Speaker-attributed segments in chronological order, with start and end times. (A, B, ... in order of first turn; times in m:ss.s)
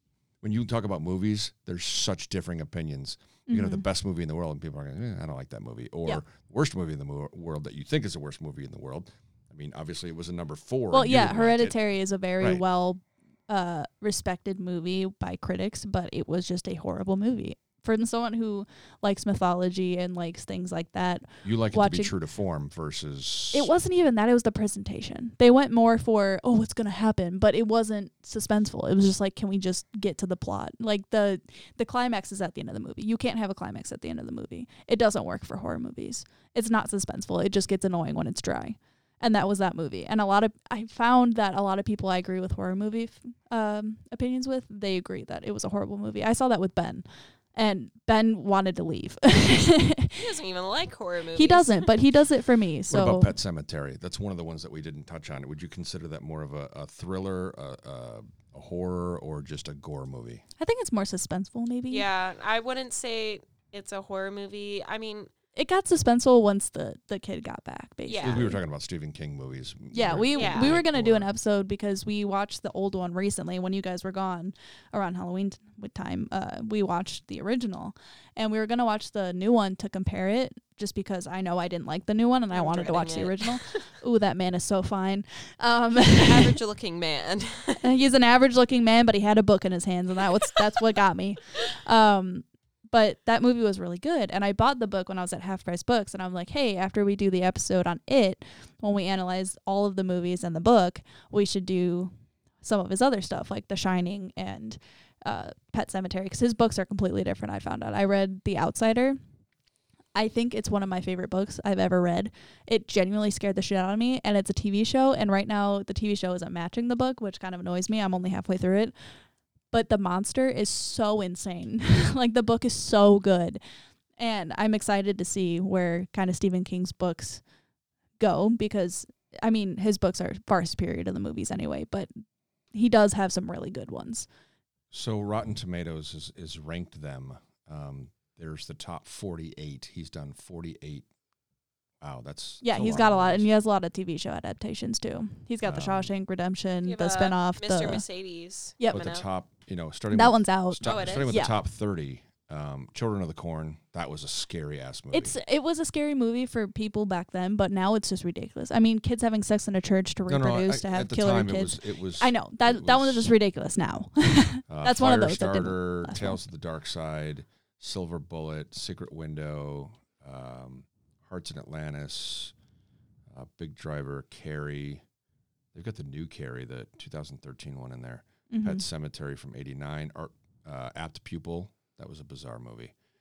0:00.4-0:11.8 A
0:03.5-0:03.8 B
0:10.9-0:22.1 B
0:21.4-0:23.7 A
0:23.5-0:50.2 B
0:50.2-0:51.9 C
0:51.3-0:53.3 B
0:52.9-1:00.4 A
1:00.6-1:02.1 B
1:01.9-1:05.3 C
1:05.5-1:08.6 B
1:08.1-1:08.4 C
1:08.2-1:11.3 A
1:09.9-1:26.6 B
1:10.3-1:10.8 C
1:22.5-1:23.8 C
1:26.1-1:27.9 C
1:27.8-1:49.2 B
1:50.1-1:58.9 B
1:59.7-2:03.6 B
2:04.2-2:07.4 B
2:08.2-2:12.1 B
2:12.7-2:14.3 B
2:14.9-2:21.1 A
2:22.0-2:23.5 A
2:22.6-2:28.0 B
2:25.6-2:26.1 A
2:26.8-2:29.2 C
2:28.8-2:29.0 B
2:28.9-2:35.3 A
2:30.1-2:31.5 B
2:30.8-2:31.4 C
2:35.1-2:46.4 B
2:40.3-2:43.3 A
2:44.7-2:52.5 A
2:53.3-2:55.0 A
2:55.7-3:02.9 A
2:58.5-2:58.8 B